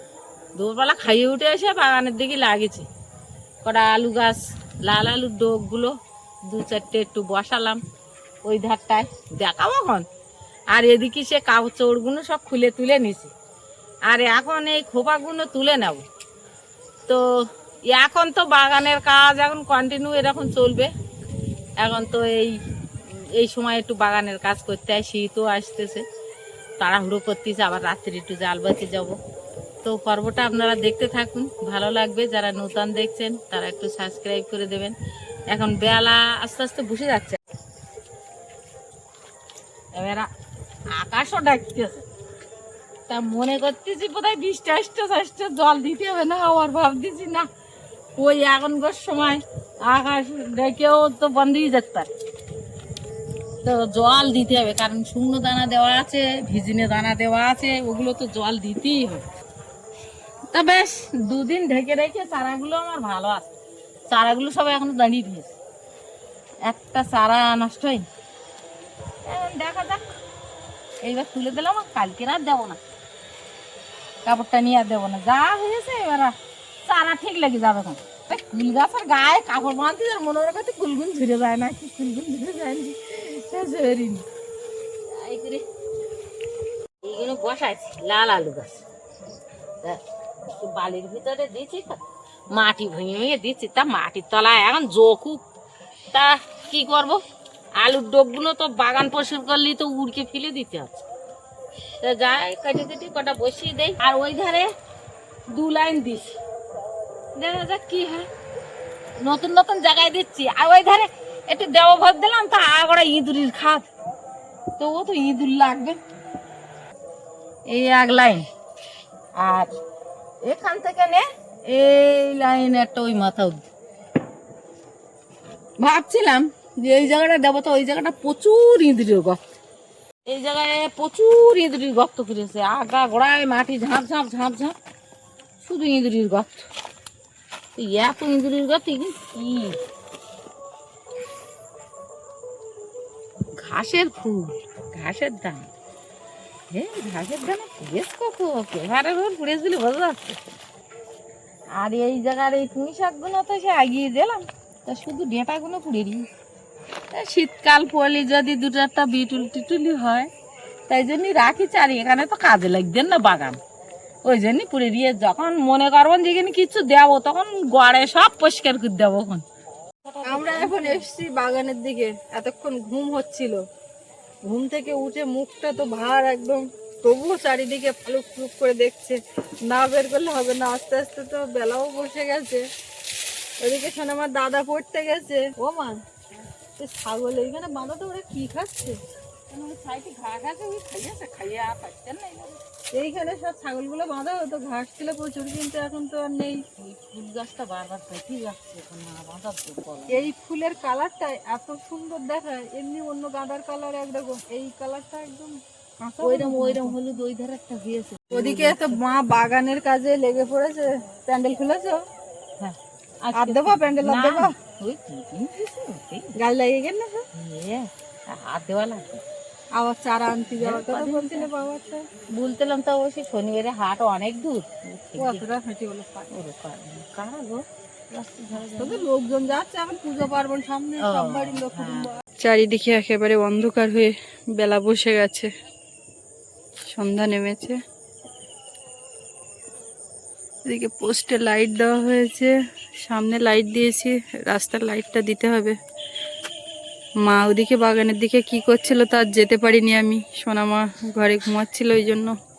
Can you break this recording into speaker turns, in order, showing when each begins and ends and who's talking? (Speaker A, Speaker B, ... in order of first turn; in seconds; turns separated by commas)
Speaker A: 0.6-2.9, Speaker A: 3.6-5.9, Speaker A: 6.5-7.8, Speaker A: 8.4-10.1, Speaker A: 10.7-13.3, Speaker A: 14.1-16.0, Speaker A: 17.9-20.9, Speaker A: 21.8-22.6, Speaker A: 23.3-26.0, Speaker A: 26.8-29.2, Speaker A: 29.8-34.9, Speaker A: 35.5-37.4, Speaker A: 39.9-40.3, Speaker A: 40.9-42.0, Speaker A: 43.1-47.5, Speaker A: 48.2-52.1, Speaker A: 53.6-59.2, Speaker A: 60.5-63.5, Speaker A: 64.1-65.5, Speaker A: 66.6-68.1, Speaker A: 69.2-70.1, Speaker A: 71.0-72.8, Speaker A: 74.2-76.3, Speaker A: 76.8-84.2, Speaker A: 85.1-85.6, Speaker A: 87.0-88.8, Speaker A: 89.8-92.0, Speaker A: 92.5-95.4, Speaker A: 96.1-97.2, Speaker A: 97.8-101.0, Speaker A: 102.0-104.7, Speaker A: 105.5-106.4, Speaker A: 107.3-108.3, Speaker A: 109.2-113.9, Speaker A: 114.8-116.0, Speaker A: 117.7-118.5, Speaker A: 119.3-119.7, Speaker A: 120.4-123.6, Speaker A: 125.8-129.4, Speaker A: 130.2-134.8, Speaker A: 135.6-136.7, Speaker A: 137.8-139.8, Speaker A: 143.6-145.7, Speaker A: 146.7-150.4, Speaker A: 151.7-156.2, Speaker A: 157.1-160.3, Speaker A: 160.9-163.6, Speaker A: 164.2-169.4, Speaker A: 170.1-171.0, Speaker B: 170.3-173.6, Speaker B: 174.5-182.6, Speaker B: 183.6-186.0, Speaker B: 186.8-189.0, Speaker A: 189.5-192.6, Speaker B: 192.9-196.6, Speaker A: 196.8-200.3, Speaker B: 200.1-207.0, Speaker A: 206.2-208.9, Speaker B: 208.3-212.0, Speaker A: 212.6-216.3, Speaker B: 213.4-214.5, Speaker B: 216.4-217.2, Speaker A: 217.3-219.2, Speaker B: 219.8-222.0, Speaker A: 220.6-221.5, Speaker A: 222.3-225.5, Speaker B: 225.2-226.3, Speaker A: 226.3-229.0, Speaker B: 228.8-235.5, Speaker A: 231.0-232.1, Speaker B: 236.9-237.8, Speaker B: 240.7-245.8, Speaker B: 247.2-252.3